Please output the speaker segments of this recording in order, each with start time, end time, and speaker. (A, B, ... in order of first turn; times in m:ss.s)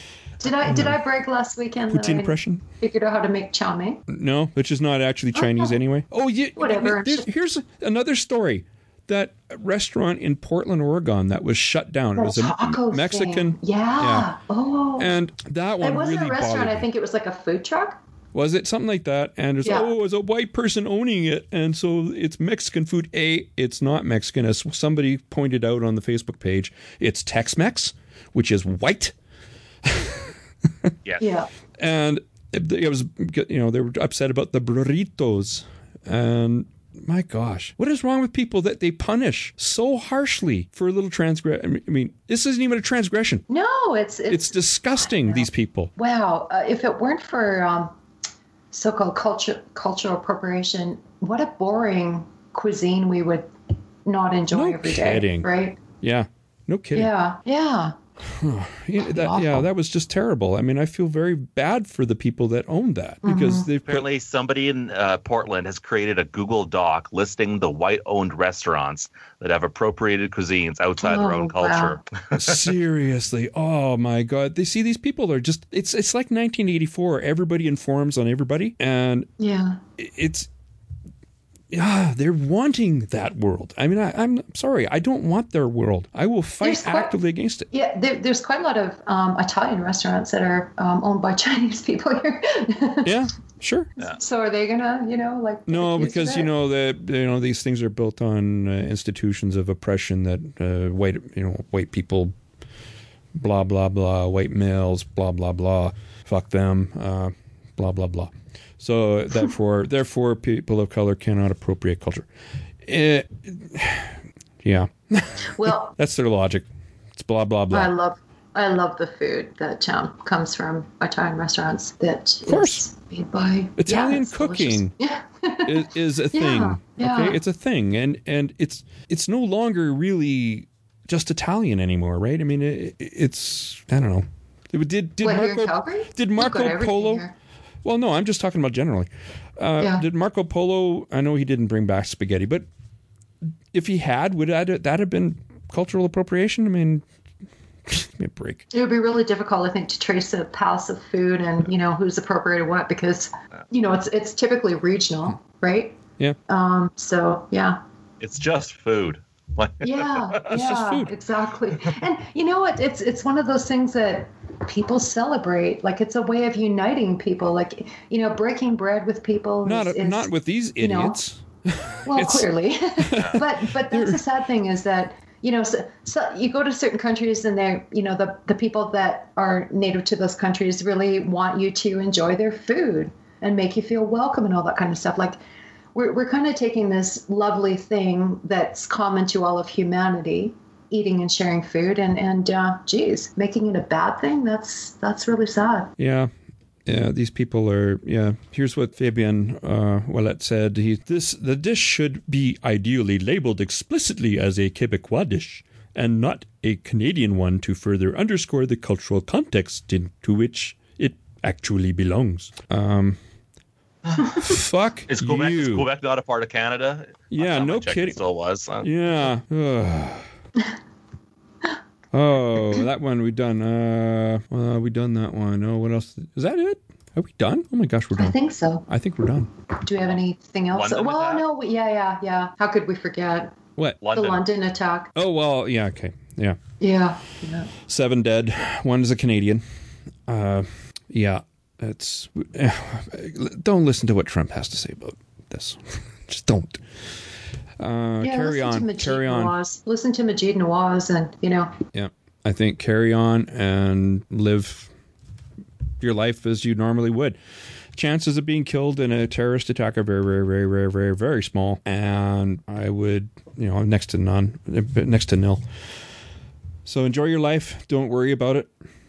0:00.4-0:04.0 A
0:00.6-0:01.0 B
0:01.9-0:02.6 B
0:04.1-0:14.3 B
0:05.3-0:05.8 A
0:06.6-0:07.3 A
0:12.2-0:15.1 A
0:15.0-0:16.9 B
0:15.8-0:18.0 A
0:18.3-0:29.1 B
0:19.6-0:19.9 A
0:29.8-0:30.9 B
0:31.2-0:31.5 A
0:31.8-0:43.4 B
0:43.5-0:47.9 A
0:44.3-0:45.9 B
0:48.7-0:53.5 A
0:54.0-0:55.8 A
0:54.5-0:57.1 B
0:56.9-0:57.9 A
0:58.2-1:04.0 B
0:59.0-0:59.7 A
1:03.2-1:03.7 A
1:03.8-1:12.6 C
1:11.0-1:12.0 A
1:12.3-1:19.3 B
1:19.4-1:19.8 A
1:20.0-1:20.5 B
1:21.7-1:27.7 B
1:26.6-1:27.1 A
1:27.7-1:33.1 A
1:33.0-1:33.9 B
1:34.0-1:36.5 A
1:35.7-1:42.3 B
1:43.3-1:52.3 B
1:52.8-1:57.9 B
1:55.5-1:55.9 A
1:57.7-2:07.4 A
2:02.4-2:02.8 B
2:03.8-2:04.9 B
2:05.6-2:17.2 B
2:15.2-2:17.3 A
2:17.8-2:22.7 B
2:19.8-2:20.0 A
2:23.7-2:27.0 B
2:27.8-2:28.7 B
2:28.7-2:37.8 A
2:38.2-2:40.5 C
2:39.8-2:51.2 A
2:40.5-2:41.1 B
2:49.6-2:54.2 B
2:52.0-3:05.4 A
2:53.1-2:53.4 C
3:05.9-3:15.9 A
3:16.0-3:16.3 B
3:16.8-3:33.2 B
3:34.4-3:35.9 B
3:35.1-3:38.9 C
3:37.3-3:38.2 B
3:38.8-3:40.3 B
3:42.1-3:48.4 B
3:48.2-3:48.8 A
3:48.9-3:49.5 B
3:49.8-3:53.5 A
3:50.7-3:51.4 C
3:54.0-3:54.4 C
3:54.1-3:55.1 A
3:55.2-3:56.6 B
3:56.8-3:57.7 A
3:57.8-3:59.6 B
4:00.3-4:07.1 B
4:07.8-4:09.5 B
4:08.2-4:11.7 A
4:11.9-4:14.9 B
4:16.0-4:17.4 B
4:17.9-4:25.6 B
4:26.8-4:28.7 B